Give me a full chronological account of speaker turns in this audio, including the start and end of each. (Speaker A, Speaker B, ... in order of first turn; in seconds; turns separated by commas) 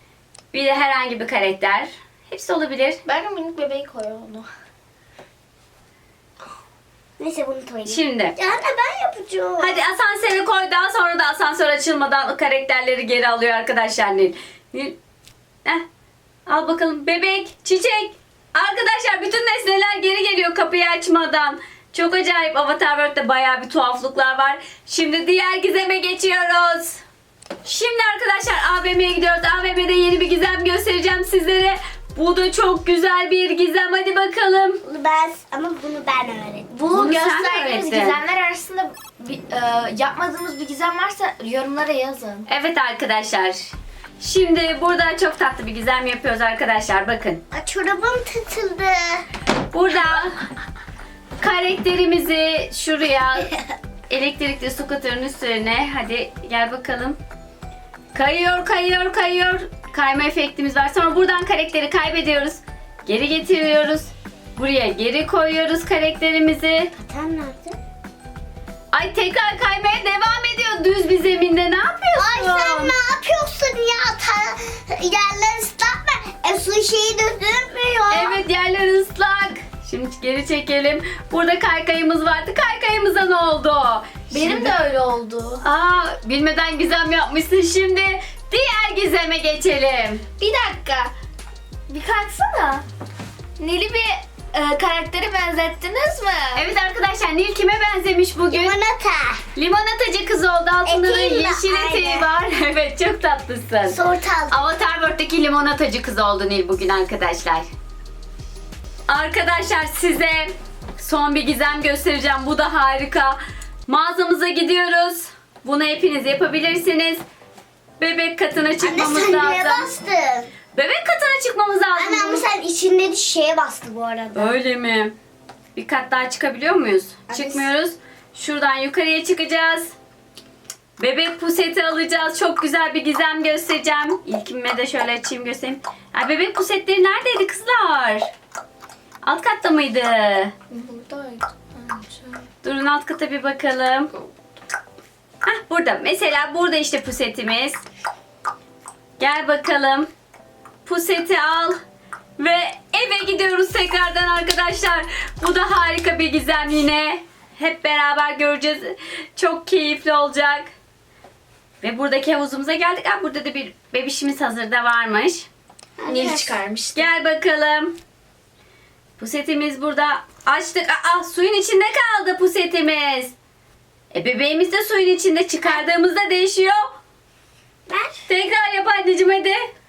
Speaker A: 0.5-3.0, Speaker B: 3.0-4.5, Speaker C: 7.2-9.8, Speaker A: 7.8-8.3, Speaker A: 9.6-15.0, Speaker A: 16.5-27.0, Speaker A: 27.6-34.8, Speaker C: 34.8-36.7, Speaker B: 36.7-42.5, Speaker A: 36.9-38.2, Speaker A: 42.5-47.4, Speaker C: 47.5-49.2, Speaker A: 49.7-50.4, Speaker A: 51.4-53.5, Speaker A: 54.1-57.2, Speaker A: 58.1-66.9, Speaker C: 67.0-67.8, Speaker A: 68.9-72.9, Speaker C: 72.2-78.4, Speaker A: 78.1-84.8, Speaker B: 84.3-85.6, Speaker A: 85.6-90.2, Speaker B: 90.4-91.1, Speaker B: 91.9-92.8, Speaker B: 93.6-96.6, Speaker A: 96.5-98.8, Speaker C: 98.5-99.4, Speaker A: 99.5-104.0, Speaker C: 100.8-102.3, Speaker C: 103.9-104.7, Speaker A: 104.5-107.7, Speaker A: 109.1-117.2, Speaker A: 118.0-119.9, Speaker C: 118.8-120.5, Speaker A: 120.7-122.4, Speaker C: 121.9-124.5, Speaker A: 124.3-125.1, Speaker A: 125.7-129.9, Speaker C: 127.3-127.7, Speaker A: 131.0-138.3, Speaker A: 139.2-140.5, Speaker B: 140.7-142.4, Speaker A: 142.6-144.1, Speaker A: 145.4-147.8, Speaker A: 149.2-150.1, Speaker A: 150.8-151.8, Speaker A: 152.4-160.7, Speaker A: 161.8-165.5, Speaker C: 166.0-166.6, Speaker B: 166.1-167.1, Speaker A: 166.9-167.9, Speaker A: 169.2-173.3, Speaker A: 174.1-176.9, Speaker C: 177.9-178.2, Speaker A: 178.3-179.6